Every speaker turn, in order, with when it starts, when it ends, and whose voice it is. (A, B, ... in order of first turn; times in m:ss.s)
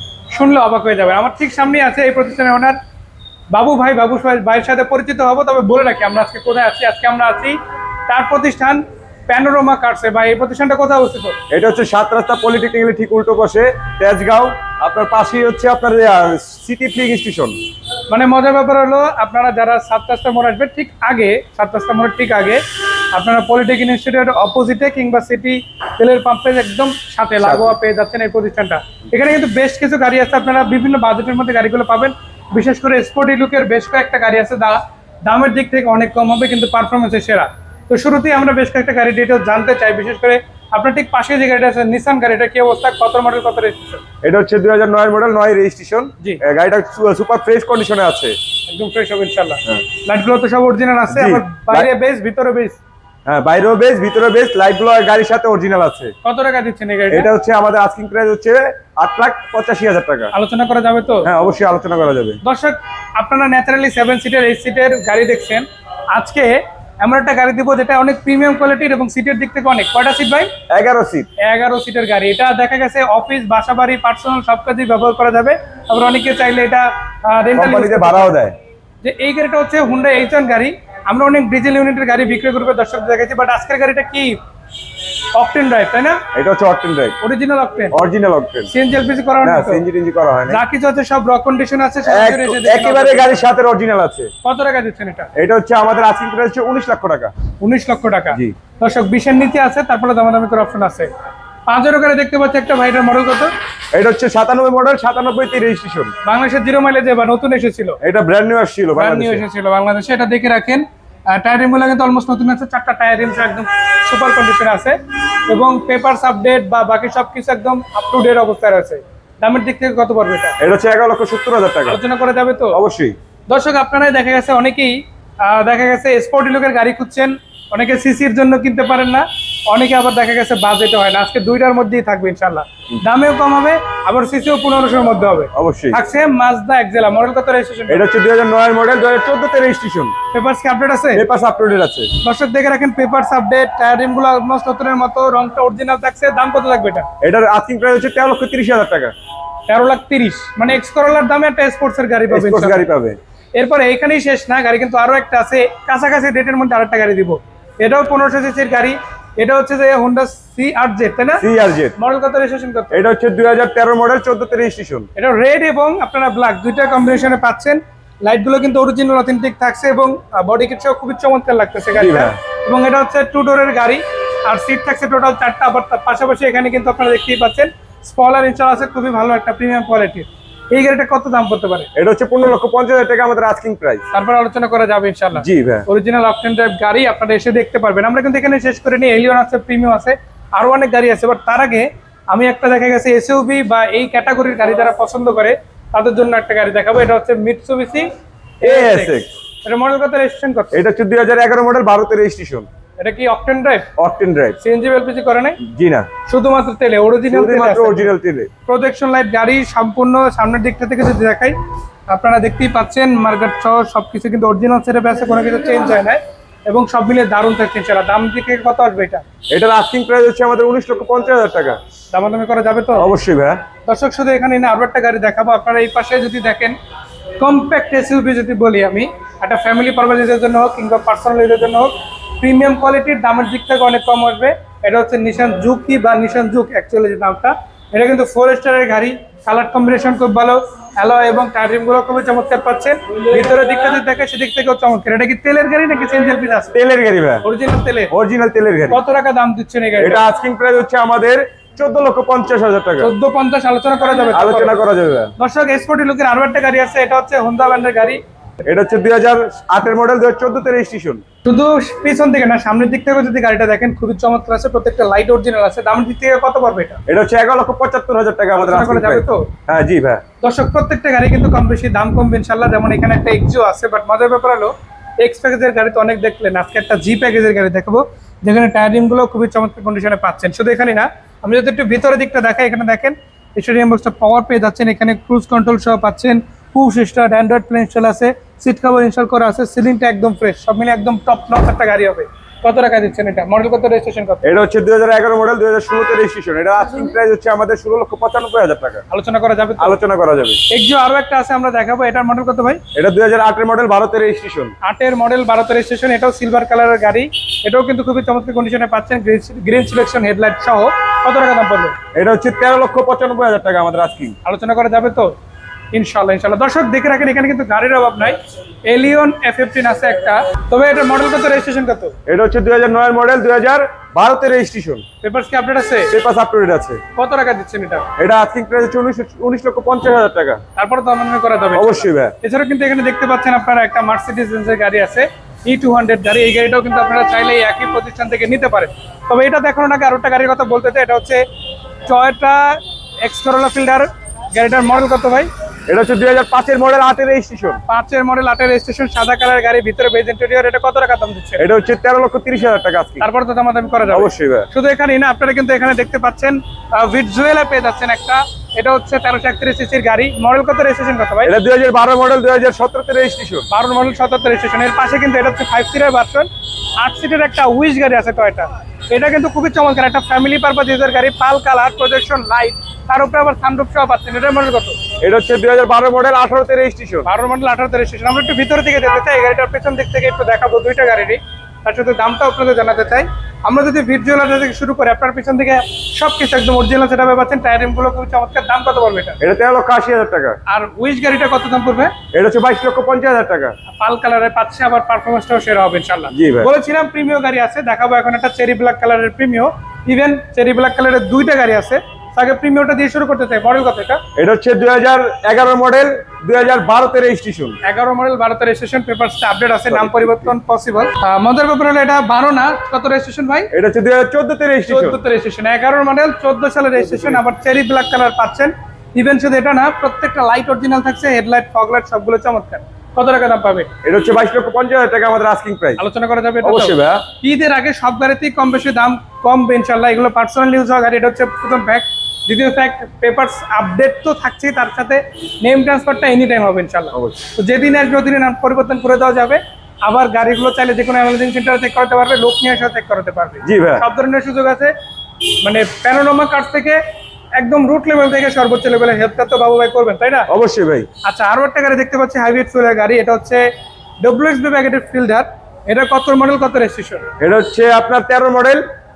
0:00.3-0:02.8 A
0:03.5-0:07.6 A
0:08.1-0:11.4 A
0:11.5-0:17.6 B
0:18.1-0:22.6 A
0:23.1-0:44.0 A
0:27.4-0:27.8 B
0:44.2-0:48.4 B
0:48.7-0:52.8 A
0:51.1-0:51.9 B
0:53.2-0:56.1 B
0:56.2-0:57.3 A
0:57.1-1:00.3 B
1:00.3-1:01.3 A
1:01.2-1:02.4 B
1:02.4-1:10.5 A
1:10.7-1:11.3 B
1:11.4-1:18.4 A
1:17.5-1:18.5 B
1:19.0-1:24.4 A
1:25.3-1:26.2 A
1:26.3-1:27.2 B
1:27.2-1:28.0 A
1:27.9-1:28.7 B
1:28.7-1:29.8 A
1:29.4-1:30.6 B
1:30.5-1:33.5 A
1:32.1-1:34.3 B
1:34.4-1:35.3 A
1:35.4-1:37.3 B
1:37.6-1:41.1 A
1:41.7-1:43.5 A
1:43.9-1:46.1 B
1:46.2-1:48.0 A
1:48.0-1:49.4 B
1:49.0-2:00.6 A
2:00.6-2:02.0 B
2:01.8-2:02.8 A
2:02.7-2:03.2 B
2:03.5-2:18.0 A
2:15.5-2:16.0 B
2:17.9-2:20.1 B
2:20.3-2:21.2 A
2:21.1-2:22.1 B
2:22.2-2:27.1 A
2:27.2-2:29.1 B
2:29.7-2:32.8 A
2:32.3-2:33.2 B
2:33.5-2:41.4 A
2:41.4-2:42.0 B
2:42.0-2:43.0 A
2:42.9-2:45.1 B
2:45.2-3:01.9 A
2:51.9-2:52.4 B
3:01.9-3:04.0 B
3:04.1-3:18.1 A
3:05.3-3:05.9 B
3:18.6-3:20.8 A
3:18.6-3:19.3 B
3:20.7-3:22.7 B
3:23.0-3:23.9 A
3:24.0-3:24.6 B
3:24.6-3:25.6 A
3:25.6-3:26.1 B
3:26.2-3:28.1 A
3:27.3-3:28.5 B
3:28.7-3:31.6 A
3:32.1-3:39.2 A
3:39.5-3:41.8 B
3:42.1-3:43.1 A
3:42.9-3:43.6 B
3:43.8-3:46.8 A
3:47.4-4:06.8 A
4:06.7-4:07.4 B
4:07.4-4:08.1 A
4:08.1-4:09.0 B
4:08.9-4:10.2 A
4:10.0-4:13.1 B
4:13.0-4:14.8 A
4:14.3-4:15.3 B
4:15.4-4:18.2 A
4:18.6-4:21.2 B
4:21.4-4:27.0 A
4:27.1-4:30.2 B
4:28.6-4:29.5 A
4:30.4-4:54.5 A
4:54.4-4:59.0 B
4:59.1-5:00.0 A
4:59.8-5:00.6 B
5:00.7-5:02.8 A
5:02.9-5:04.7 B
5:04.8-5:12.0 A
5:12.1-5:14.4 B
5:14.4-5:15.3 A
5:15.9-5:22.1 A
5:22.2-5:25.0 B
5:25.2-5:26.1 A
5:26.1-5:27.0 B
5:27.1-5:28.1 A
5:28.2-5:30.6 B
5:30.8-5:41.4 A
5:31.7-5:32.3 B
5:42.0-5:45.5 A
5:45.9-5:47.8 B
5:47.9-5:51.6 A
5:51.6-5:53.3 B
5:53.2-6:01.5 A
5:54.1-5:54.7 B
6:01.4-6:03.7 B
6:03.7-6:15.0 A
6:15.2-6:17.3 B
6:17.2-6:29.4 A
6:29.4-6:30.6 B
6:30.7-6:32.1 A
6:32.3-6:33.7 B
6:33.9-6:44.2 A
6:36.3-6:36.7 B
6:44.4-6:47.8 B
6:47.8-6:53.7 A
6:49.9-6:50.5 B
6:53.7-6:55.2 B
6:54.8-7:03.9 A
6:57.1-6:57.4 B
7:04.0-7:06.0 B
7:06.0-7:24.9 A
7:06.6-7:07.2 B
7:17.1-7:17.4 B
7:23.6-7:24.0 B
7:25.6-7:27.0 A
7:27.6-7:30.5 A
7:30.5-7:31.1 B
7:31.2-7:33.6 A
7:34.2-7:37.3 A
7:37.4-7:38.8 B